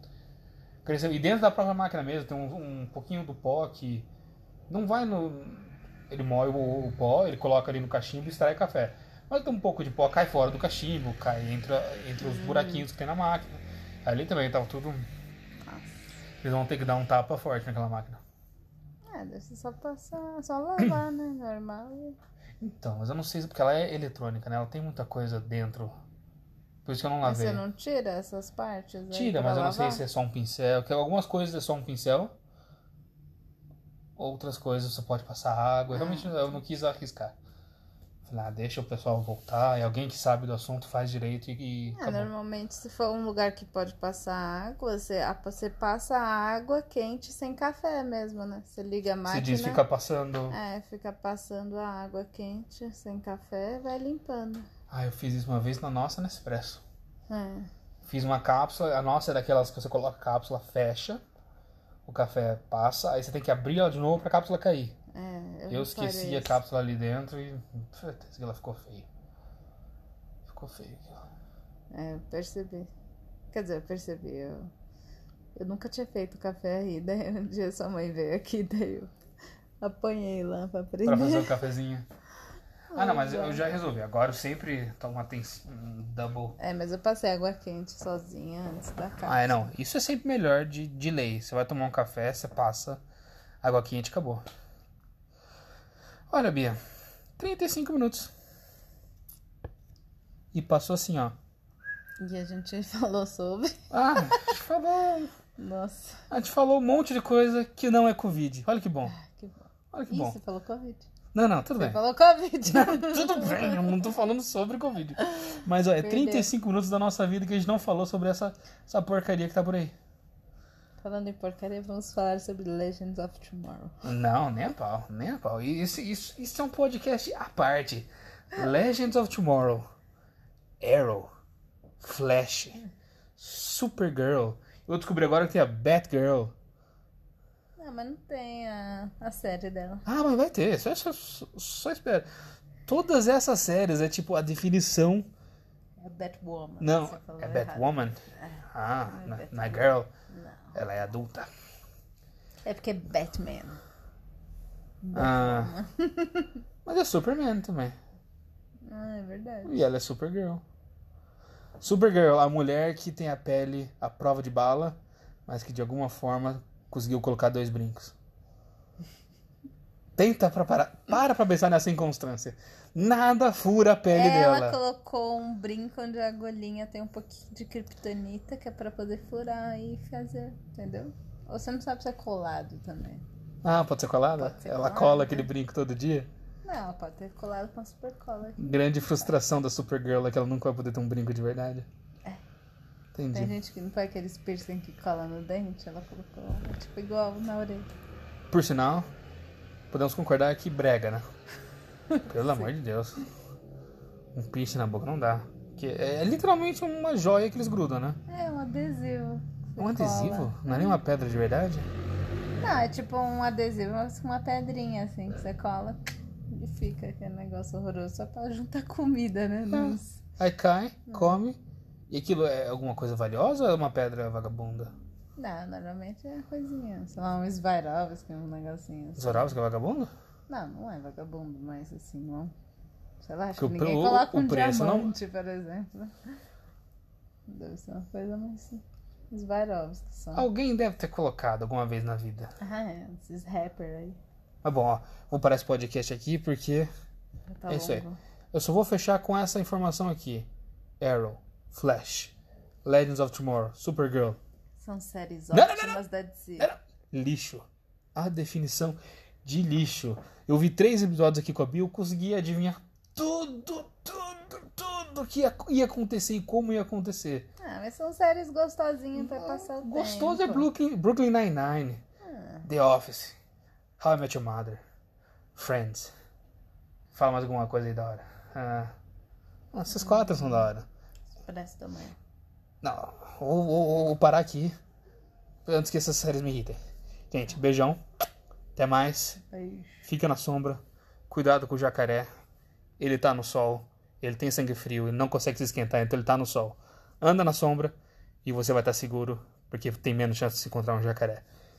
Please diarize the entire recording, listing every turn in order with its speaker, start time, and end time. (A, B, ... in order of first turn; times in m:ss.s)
0:00.8-0:04.1 A
0:04.7-0:15.1 A
0:12.2-0:12.9 B
0:15.6-0:16.0 B
0:16.4-0:18.2 A
0:19.1-0:22.2 B
0:22.6-0:26.0 A
0:26.8-0:27.6 A
0:27.2-0:30.0 B
0:29.1-0:32.4 A
0:34.2-0:37.4 A
0:35.9-0:36.6 B
0:38.2-0:42.3 A
0:41.9-0:49.8 B
0:49.3-0:50.6 A
0:50.5-0:54.7 B
0:54.9-0:56.8 A
0:57.3-0:57.7 B
0:58.0-1:01.2 A
1:02.1-1:05.0 A
1:05.1-1:06.6 B
1:05.7-1:09.1 A
1:10.5-1:11.2 A
1:11.9-1:12.9 B
1:13.5-1:14.7 B
1:15.6-1:19.1 B
1:19.8-1:21.6 B
1:21.0-1:22.1 A
1:22.9-1:23.7 B
1:22.9-1:26.6 A
1:26.6-1:29.7 B
1:29.2-1:33.0 A
1:33.6-1:34.4 A
1:36.3-1:36.8 A
1:37.4-1:38.3 A
1:40.5-1:41.4 A
1:42.2-1:44.6 B
1:43.9-1:45.3 A
1:45.6-1:46.3 B
1:46.3-1:49.1 A
1:49.1-1:51.1 B
1:49.9-1:50.4 A
1:51.3-1:52.0 A
1:51.8-1:54.0 B
1:52.7-2:00.0 A
1:55.3-1:56.5 B
2:01.0-2:04.0 B
2:04.0-2:09.9 A
2:10.8-2:11.3 A
2:12.0-2:12.8 A
2:13.4-2:16.6 A
2:17.8-2:20.1 B
2:20.1-2:22.3 A
2:22.9-2:25.3 A
2:26.0-2:30.8 B
2:26.8-2:30.1 A
2:30.8-2:31.5 A
2:32.6-2:33.8 B
2:35.0-2:36.6 B
2:35.1-2:35.7 A
2:36.9-2:38.0 A
2:38.8-2:39.8 B
2:39.6-2:40.6 A
2:41.8-2:48.2 A
2:50.2-2:54.8 A
2:54.1-3:03.2 B
3:03.6-3:06.3 A
3:04.4-3:05.5 B
3:06.6-3:09.3 B
3:08.6-3:11.9 A
3:13.1-3:13.6 A
3:13.3-3:17.9 B
3:18.5-3:19.1 A
3:19.9-3:21.2 A
3:22.1-3:23.2 A
3:22.2-3:22.7 B
3:24.3-3:28.2 A
3:28.3-3:31.0 B
3:29.8-3:31.9 A
3:32.6-3:36.0 B
3:36.5-3:40.2 B
3:39.7-3:41.6 A
3:41.1-3:41.4 B
3:42.1-3:44.9 A
3:45.4-3:49.6 B
3:49.2-3:50.1 A
3:50.5-3:52.5 B
3:53.2-3:56.3 B
3:53.6-3:55.1 A
3:57.5-4:00.5 B
4:00.4-4:02.5 A
4:02.6-4:04.2 B
4:04.6-4:06.9 A
4:07.5-4:08.2 B
4:07.7-4:10.5 A
4:11.0-4:12.3 A
4:12.8-4:14.4 A
4:14.8-4:16.7 B
4:15.5-4:16.0 A
4:16.6-4:27.5 A
4:27.6-4:30.7 B
4:29.2-4:32.0 A
4:32.2-4:32.7 B
4:32.6-4:33.4 A
4:34.0-4:34.8 A
4:35.6-4:36.1 A
4:37.1-4:38.9 A
4:39.7-4:40.9 A
4:39.9-4:40.7 B
4:41.4-4:42.2 B
4:42.8-4:44.7 A
4:45.7-4:46.8 A
4:47.3-4:48.0 A
4:48.8-4:49.4 A
4:49.5-4:50.1 B
4:50.0-4:52.3 A
4:53.0-5:01.4 A